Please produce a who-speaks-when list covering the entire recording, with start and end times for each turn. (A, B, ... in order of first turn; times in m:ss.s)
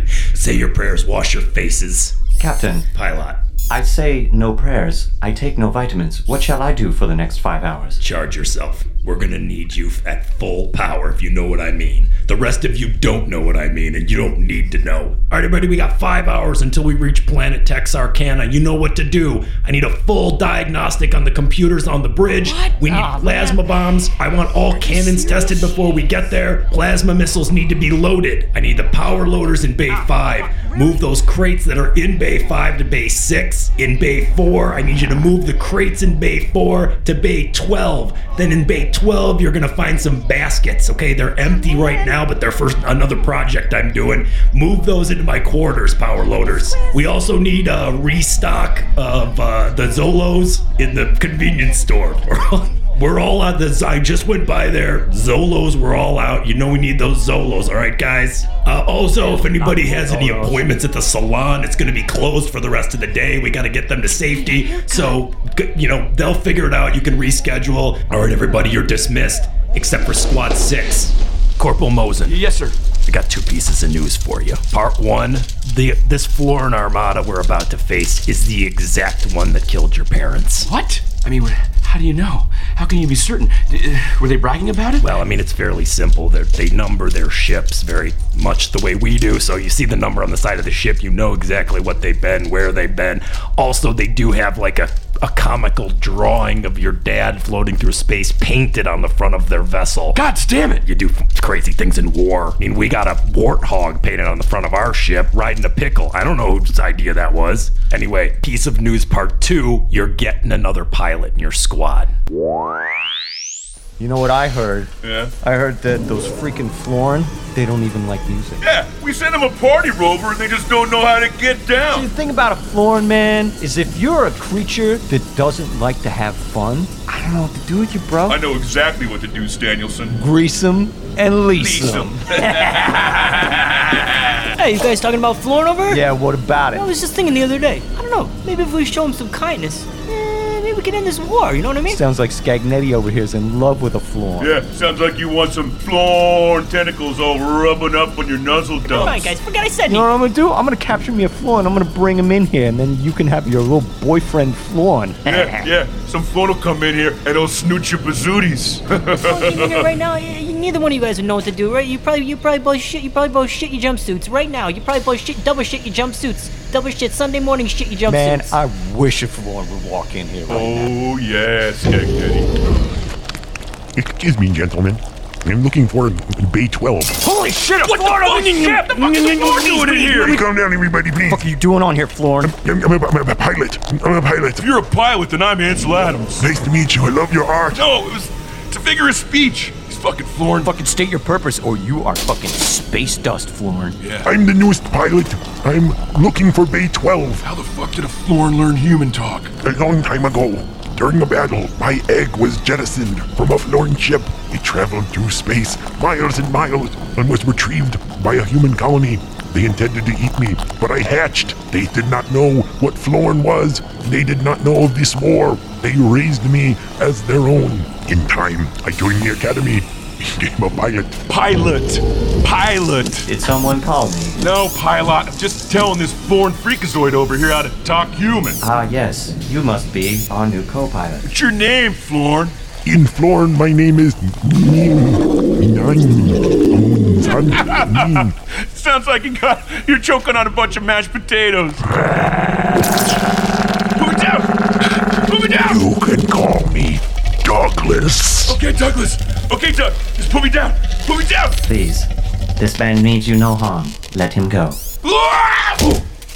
0:00.2-0:02.1 A
0:02.4-0:02.9 B
0:02.9-0:03.4 A
0:03.7-0:08.0 B
0:08.0-1:12.4 A
0:22.8-0:23.6 C
0:24.8-0:25.5 C
0:59.2-0:59.6 C
1:04.4-1:05.2 C
1:12.2-1:12.8 D
1:13.0-1:20.7 A
1:20.6-1:25.2 D
1:25.0-1:40.2 A
1:40.1-1:40.8 D
1:40.8-1:52.1 A
1:54.0-1:58.6 B
1:55.0-1:55.3 E
1:58.6-2:02.1 E
2:01.9-2:08.4 B
2:08.2-2:10.2 E
2:10.1-2:12.2 B
2:11.6-2:12.9 E
2:12.3-2:13.0 C
2:14.5-2:16.0 C
2:15.9-2:16.9 B
2:16.7-2:22.0 C
2:21.9-2:24.5 B
2:24.4-2:29.3 E
2:28.8-2:30.1 C
2:29.9-2:35.7 B
2:35.2-2:39.9 E
2:39.1-2:48.6 C
2:48.0-2:51.0 B
2:50.5-2:52.5 E
2:53.9-2:57.2 F
2:57.4-2:58.0 B
2:57.8-3:00.4 E
2:59.4-3:01.5 F
3:01.2-3:02.6 B
3:02.4-3:04.7 F
3:04.6-3:06.5 E
3:06.4-3:07.8 F
3:07.7-3:10.7 E
3:10.6-3:14.0 B
3:14.0-3:14.3 E
3:14.2-3:17.4 F
3:17.4-3:19.5 E
3:19.6-3:41.2 F
3:41.3-3:43.3 E
3:43.2-3:44.4 B
3:44.4-3:48.6 E
3:48.6-3:51.3 B
3:51.2-3:52.6 E
3:52.8-3:58.3 F
3:58.7-4:01.8 E
4:04.0-4:04.5 E
4:05.2-4:05.7 E
4:05.6-4:08.6 F
4:08.5-4:11.6 E
4:11.6-4:14.8 B
4:15.0-4:16.0 E